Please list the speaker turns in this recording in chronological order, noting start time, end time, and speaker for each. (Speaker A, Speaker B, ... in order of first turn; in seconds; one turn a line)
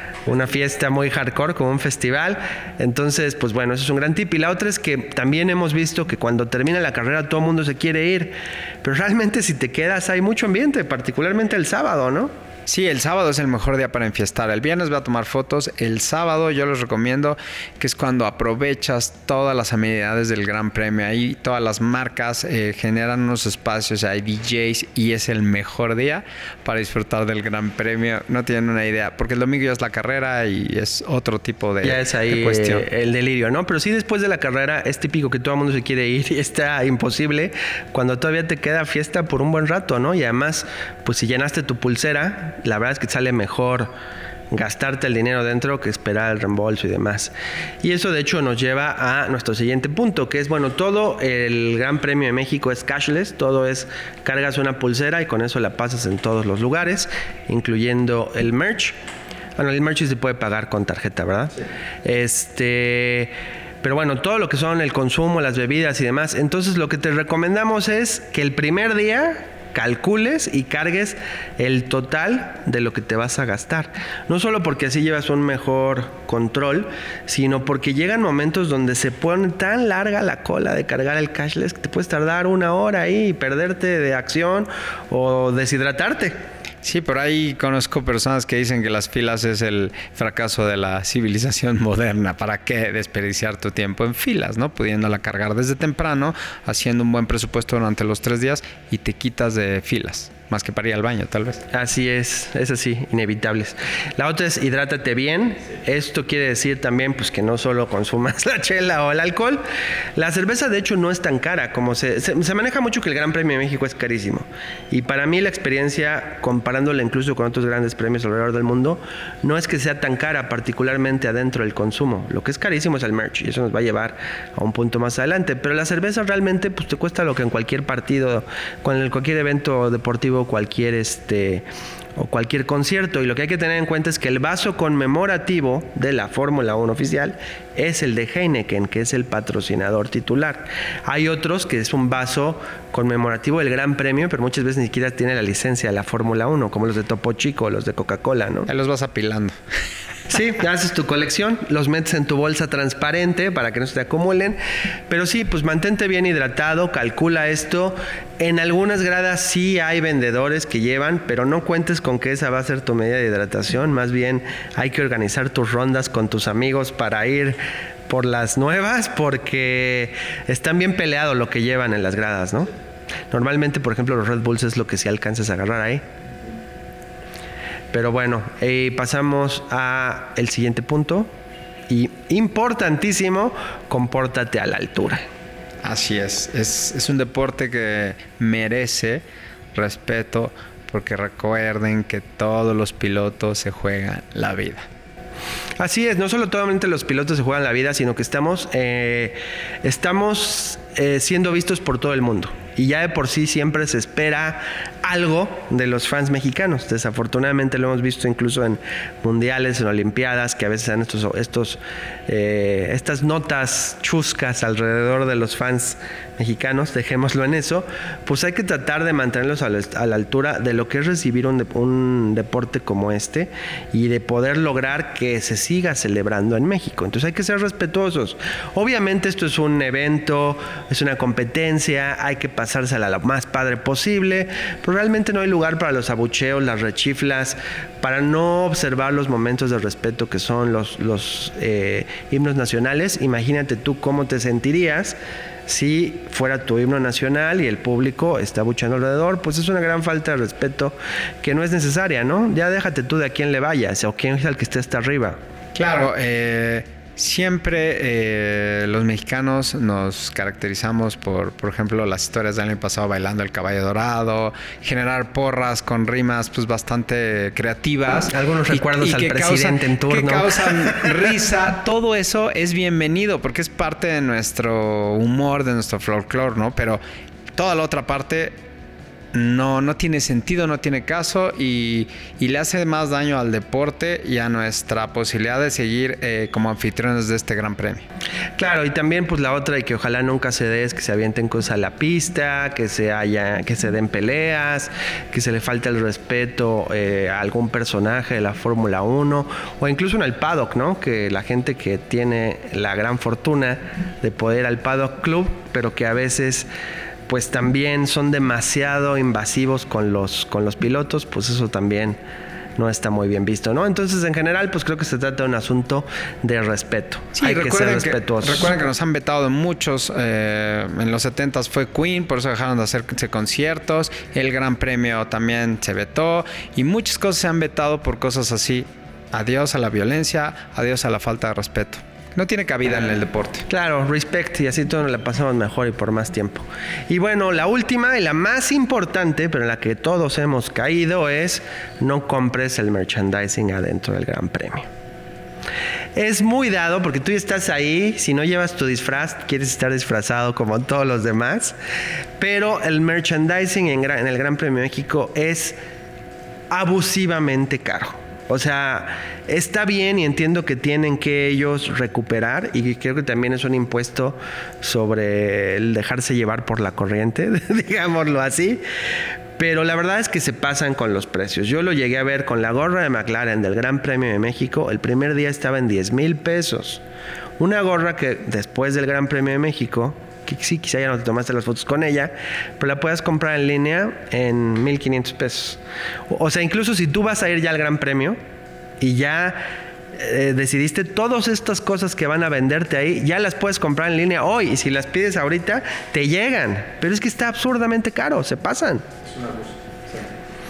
Speaker A: 0.2-12.3
Speaker B: 12.7-32.8
Speaker A: 31.8-43.9
Speaker A: 44.5-58.9
Speaker A: 59.6-63.3
Speaker A: 63.8-86.3
Speaker B: 86.8-101.6
Speaker A: 101.7-109.6
Speaker A: 110.2-131.6
Speaker A: 132.2-148.7
Speaker B: 148.7-149.5
Speaker A: 150.3-154.6
Speaker A: 155.1-172.7
Speaker A: 173.3-176.0
Speaker A: 177.9-181.3
Speaker A: 181.9-185.2
Speaker B: 185.8-189.2
Speaker B: 189.7-194.8
Speaker A: 195.8-245.2
Speaker A: 245.7-255.4
Speaker B: 255.7-277.0
Speaker A: 268.3-271.3
Speaker B: 277.5-278.5
Speaker B: 279.3-288.0
Speaker A: 288.6-306.7
Speaker A: 307.3-312.2
Speaker A: 312.8-318.7
Speaker B: 317.4-333.6
Speaker A: 333.7-344.9
Speaker A: 346.1-351.7
Speaker A: 352.4-355.8
Speaker A: 356.7-368.8
Speaker A: 369.6-377.0
Speaker A: 377.6-388.4
Speaker A: 389.0-389.6
Speaker A: 390.1-399.1
Speaker B: 399.3-400.3